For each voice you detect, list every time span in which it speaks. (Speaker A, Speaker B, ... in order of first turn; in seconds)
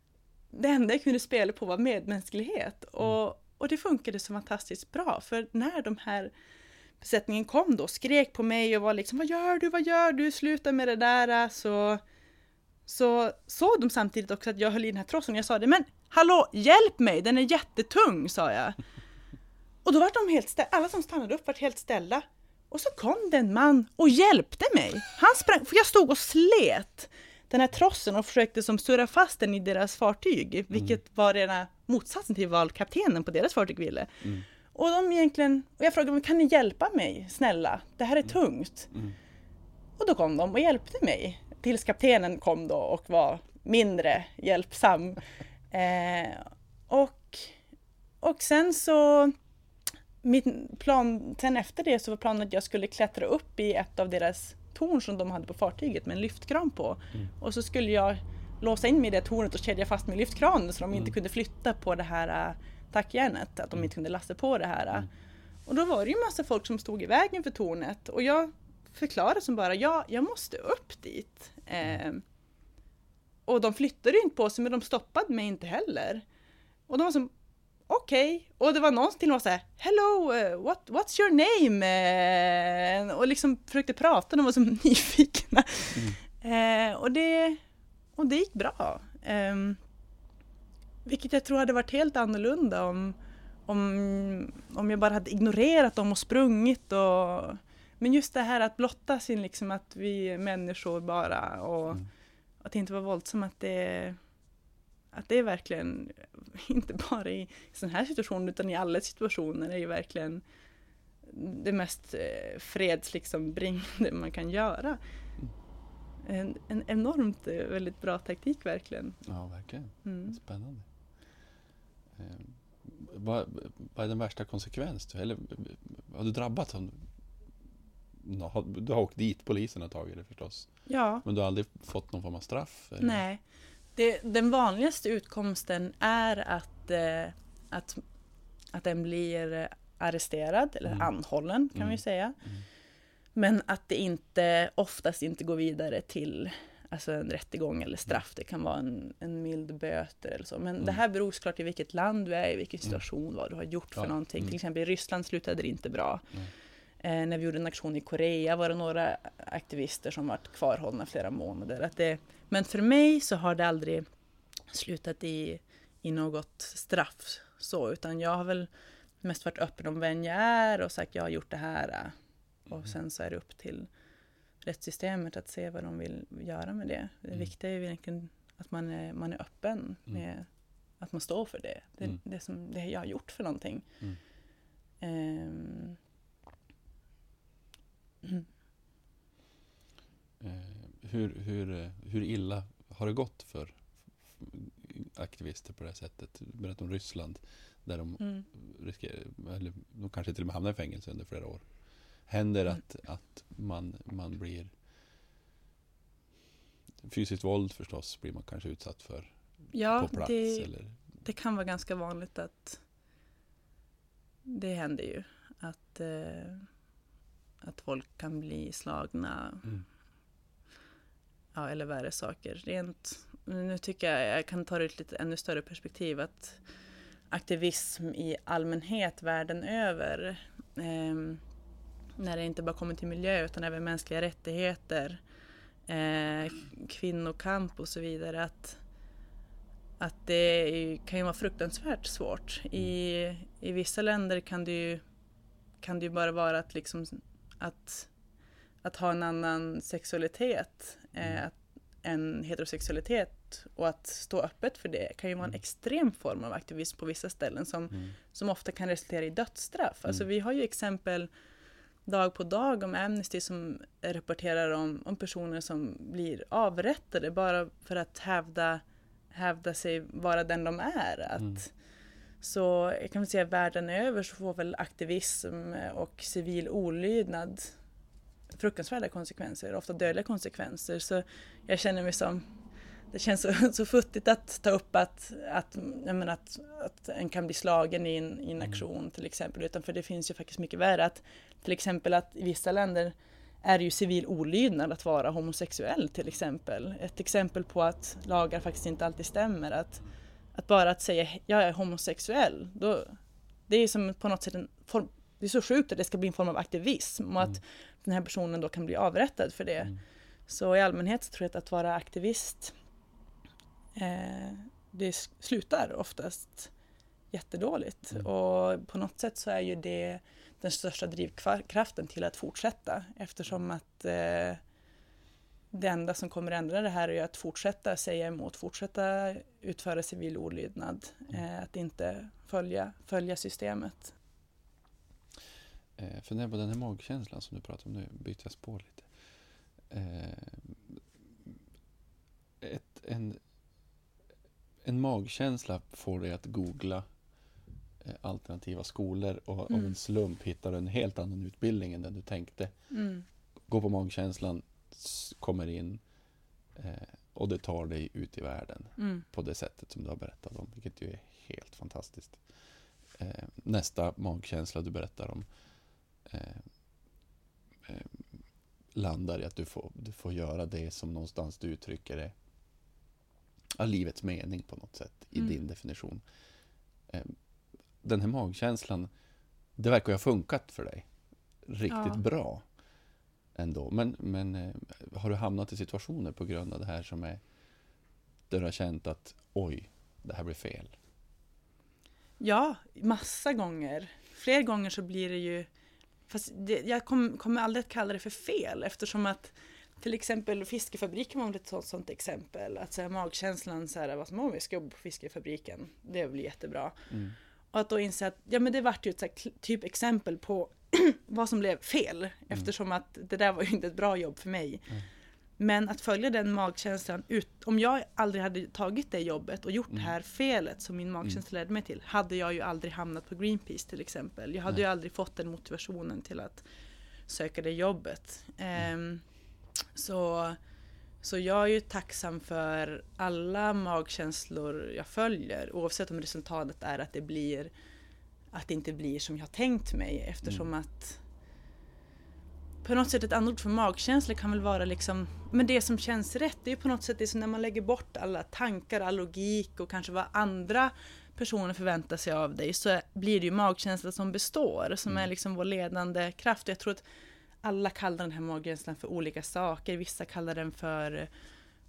Speaker A: 0.5-6.3, 7.0-12.0, 12.8-18.8, 19.8-38.9, 40.0-47.5, 48.2-49.3, 50.2-65.1, 65.7-72.2, 73.5-76.2, 76.9-77.3, 77.9-87.6, 88.2-89.8, 91.0-102.0, 102.6-104.2, 105.1-110.4, 111.2-115.0, 116.2-119.2, 120.0-120.4, 130.9-131.2, 133.0-133.4, 133.9-138.0, 138.7-142.4, 143.3-156.3, 157.0-164.1, 164.7-168.7, 169.2-172.1, 172.7-173.9, 174.6-180.5, 181.0-183.9, 185.0-186.0, 198.2-198.4, 209.7-210.7, 211.2-212.8, 214.5-216.7, 217.6-219.7, 221.5-226.6, 227.3-231.4, 232.2-235.2, 235.9-238.8, 240.0-245.0, 245.8-248.1, 248.8-261.3, 262.1-271.7, 272.4-277.7, 278.5-282.4, 283.1-300.0, 300.5-309.9, 310.5-312.7, 313.9-316.7, 317.3-324.6, 325.7-334.1, 349.7-349.9, 352.9-353.2, 359.0-359.2, 381.9-382.2, 392.4-395.7, 396.3-407.0, 407.7-414.9, 415.6-426.6, 427.3-429.2, 429.9-430.6, 431.2-437.7, 438.5-441.2, 442.8-457.0, 457.6-461.3
Speaker B: 38.9-39.2, 119.2-120.8, 122.1-127.0, 128.2-133.2, 141.7-142.6, 154.0-154.5, 190.4-201.6, 202.3-204.7, 207.0-210.9, 336.0-339.1, 339.9-341.0, 342.6-343.4, 344.8-347.1, 348.0-352.9, 353.7-356.0, 356.8-362.4, 363.1-365.5, 366.2-366.6, 367.8-368.2, 368.9-372.3, 373.8-376.2, 377.1-377.4, 378.0-379.1, 379.8-381.1, 381.6-382.6, 383.5-387.4, 388.5-390.9, 407.1-407.4